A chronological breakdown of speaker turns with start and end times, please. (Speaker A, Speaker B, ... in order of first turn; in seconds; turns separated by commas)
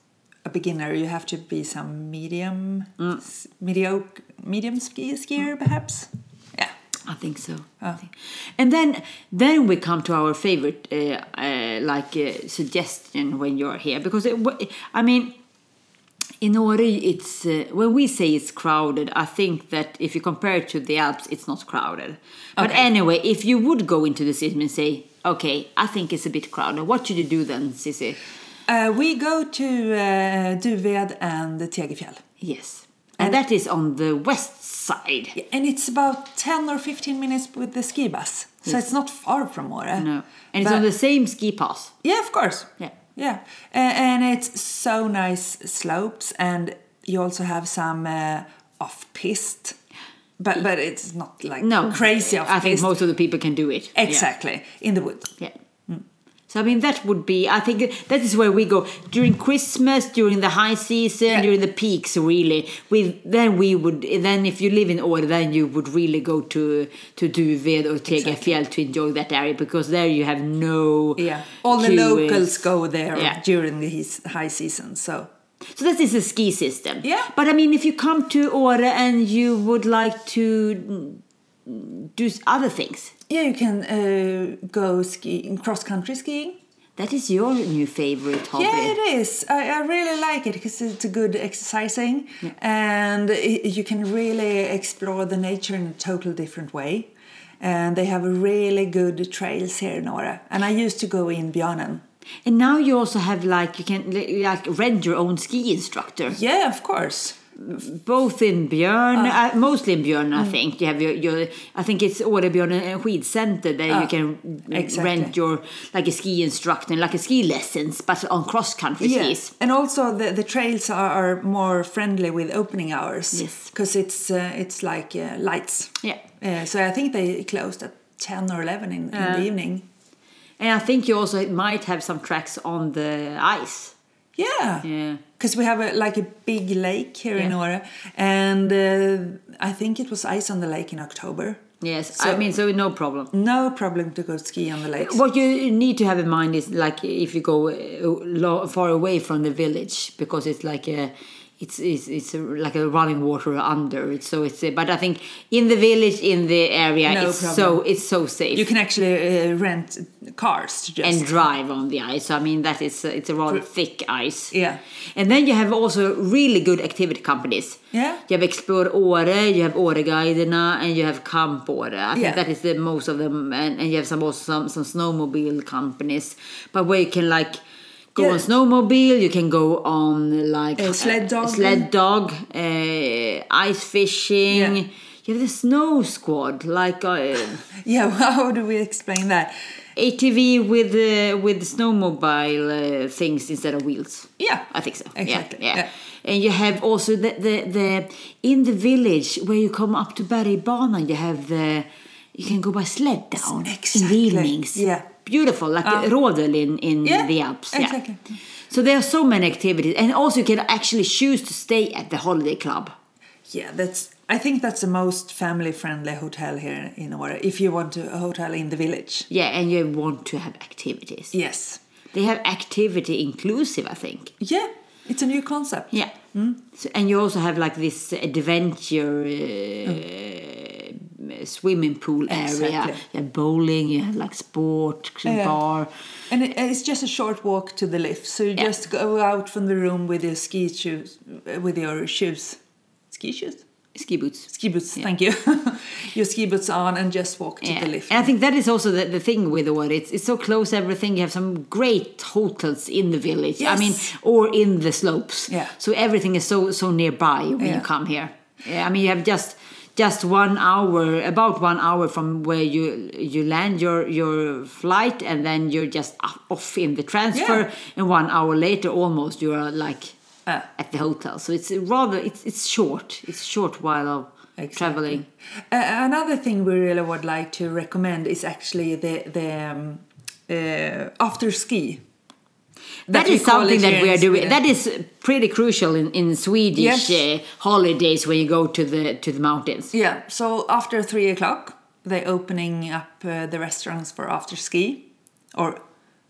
Speaker A: 0.4-6.7, Speaker B: 7.1-15.3, Speaker B: 16.4-28.2, Speaker A: 22.6-22.9, Speaker A: 28.7-32.2, Speaker B: 32.4-35.4, Speaker A: 35.4-40.1, Speaker B: 40.0-41.9, Speaker A: 40.6-40.9, Speaker A: 42.0-49.8, Speaker A: 50.4-52.9, Speaker B: 51.6-54.2, Speaker A: 53.9-55.3, Speaker B: 56.5-73.4, Speaker A: 68.1-68.6, Speaker A: 71.2-75.3, Speaker B: 75.7-83.1, Speaker A: 77.0-77.3, Speaker A: 83.3-86.6, Speaker B: 87.0-89.0, Speaker A: 88.5-102.0, Speaker B: 102.4-106.4, Speaker A: 106.3-107.4, Speaker B: 107.6-119.5, Speaker A: 114.7-115.3, Speaker A: 119.0-129.8, Speaker B: 123.3-123.7, Speaker B: 129.1-129.5, Speaker B: 130.6-133.9, Speaker A: 134.4-134.9, Speaker B: 134.8-135.2, Speaker A: 135.4-141.6, Speaker B: 141.8-143.3, Speaker A: 142.1-142.5, Speaker A: 143.3-145.2, Speaker B: 144.9-158.7, Speaker A: 157.1-157.8, Speaker A: 158.5-161.4, Speaker B: 161.0-164.6, Speaker A: 164.5-164.8, Speaker B: 165.1-177.6, Speaker A: 167.9-168.2, Speaker A: 172.1-172.4, Speaker B: 178.1-187.6, Speaker A: 178.2-178.4, Speaker A: 180.8-181.9, Speaker A: 184.5-184.8, Speaker A: 187.7-189.5, Speaker B: 189.9-208.0, Speaker A: 194.4-195.9, Speaker A: 203.4-205.1, Speaker A: 205.8-206.1, Speaker A: 207.0-208.2, Speaker B: 208.7-212.9, Speaker A: 213.5-219.3, Speaker B: 219.3-221.4, Speaker A: 221.3-221.8, Speaker B: 222.1-224.3, Speaker A: 224.4-226.6, Speaker B: 225.9-235.9, Speaker A: 232.3-233.0, Speaker A: 235.2-235.6, Speaker A: 236.3-243.6, Speaker B: 243.9-244.5, Speaker A: 244.5-248.3, Speaker B: 247.6-270.1, Speaker A: 253.6-254.1, Speaker A: 257.6-257.9, Speaker A: 267.3-267.6, Speaker B: 270.7-275.2, Speaker A: 274.6-282.0, Speaker A: 283.1-284.6, Speaker B: 283.1-289.9, Speaker A: 286.8-287.2, Speaker A: 289.9-295.8